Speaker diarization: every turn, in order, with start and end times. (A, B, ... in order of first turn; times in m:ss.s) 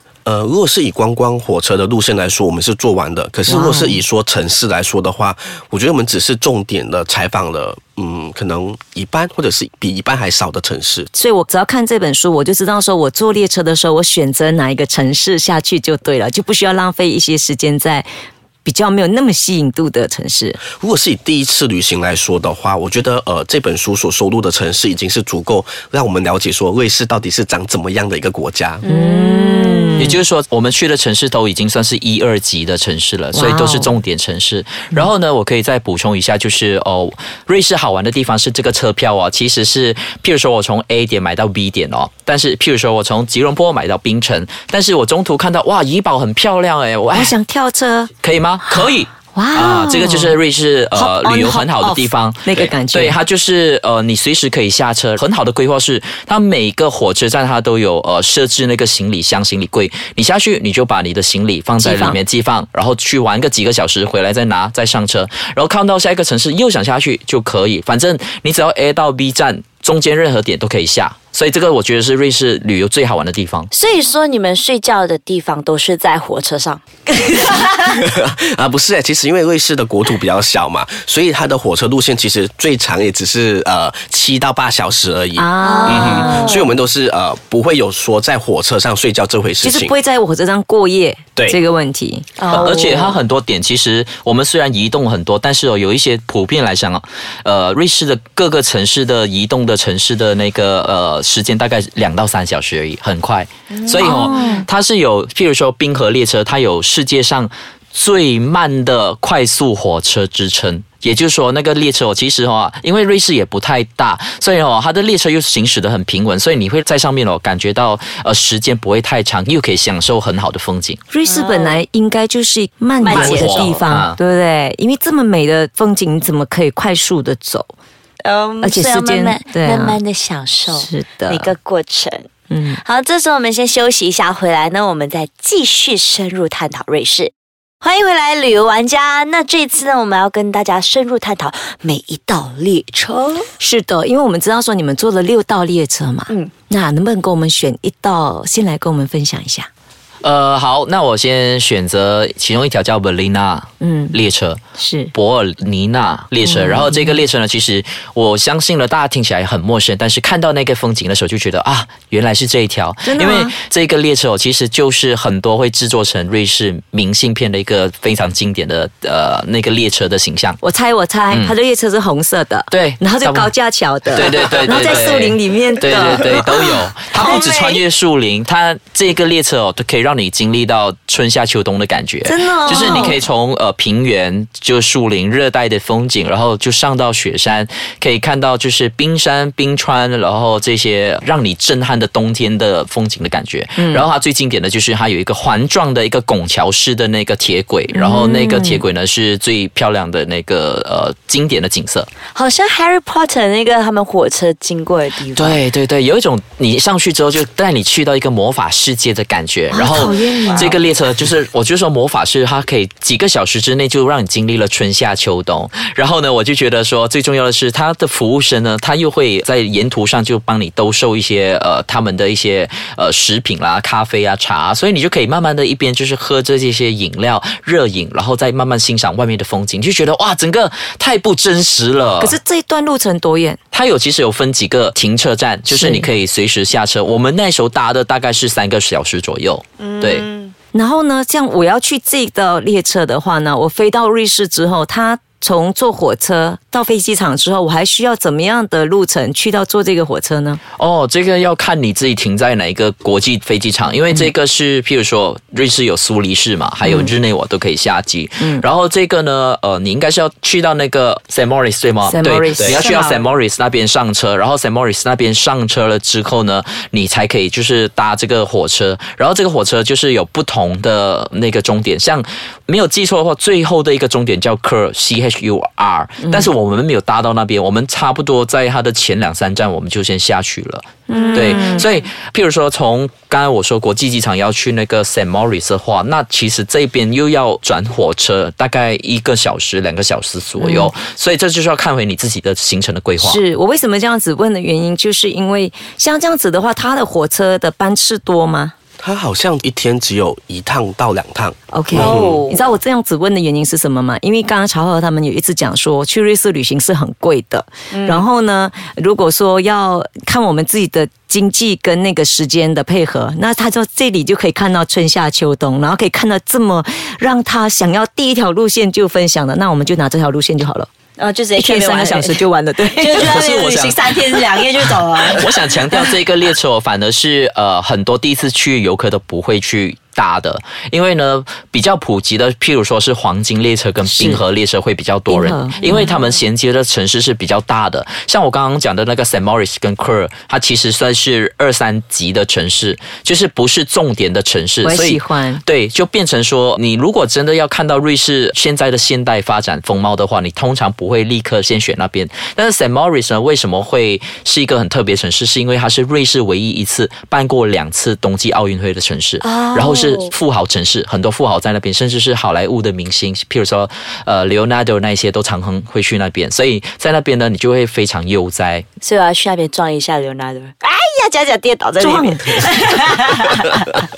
0:00.2-0:11.1 A
0:03.4-0:04.0 B
0:11.1-0:18.1 B
0:18.6-0:20.6 B
0:20.8-0:28.8 A
0:28.8-0:30.1 C
0:28.9-0:30.2 B
0:30.0-0:47.3 D
0:33.3-0:33.9 B
0:47.1-0:48.1 B
0:48.2-1:13.7 D
0:49.3-0:50.4 B
0:50.9-0:53.2 B
1:01.8-1:02.2 B
1:13.7-1:16.8 C
1:17.7-1:29.9 A
1:25.3-1:26.6 B
1:25.6-1:26.7 C
1:29.6-1:32.2 B
1:32.4-1:33.2 C
1:32.5-2:01.0 D
1:43.8-1:44.6 C
1:44.0-1:44.6 B
2:01.1-2:07.7 B
2:01.2-2:01.8 C
2:03.0-2:03.6 C
2:03.0-2:04.2 D
2:08.2-2:23.5 C
2:08.6-2:10.0 B
2:10.7-2:11.5 B
2:12.5-2:12.8 B
2:23.6-2:29.7 B
2:30.2-2:34.6 D
2:33.8-2:34.2 B
2:34.8-2:35.1 B
2:35.1-2:50.6 D
2:36.4-2:37.2 B
2:43.0-2:43.5 B
2:50.6-2:57.4 B
2:52.7-2:53.5 D
2:54.1-3:22.1 D
2:57.2-2:57.7 C
3:02.2-3:03.2 B
3:13.8-3:14.0 B
3:17.9-3:18.8 B
3:22.3-3:25.6 C
3:25.3-3:52.4 D
3:29.7-3:30.8 B
3:52.2-3:53.6 B
3:53.7-4:00.3 D
3:55.7-3:56.1 B
3:59.8-4:00.5 C
4:00.7-4:10.6 B
4:10.8-4:53.4 D
4:16.8-4:17.1 B
4:22.0-4:23.0 B
4:22.9-4:23.2 C
4:41.1-4:41.9 B
4:41.2-4:41.9 C
4:50.6-4:50.9 B
4:53.2-4:58.7 B
4:59.0-5:02.4 A
5:01.7-5:20.9 B
5:01.9-5:02.6 C
5:07.9-5:08.2 C
5:21.2-5:25.6 C
5:21.6-5:23.3 B
5:23.2-5:24.0 D
5:24.8-6:08.8 D
5:34.0-5:34.4 B
5:35.3-5:36.1 B
5:44.8-5:45.6 B
5:59.4-6:00.3 C
6:09.0-6:14.0 C
6:12.0-6:12.6 B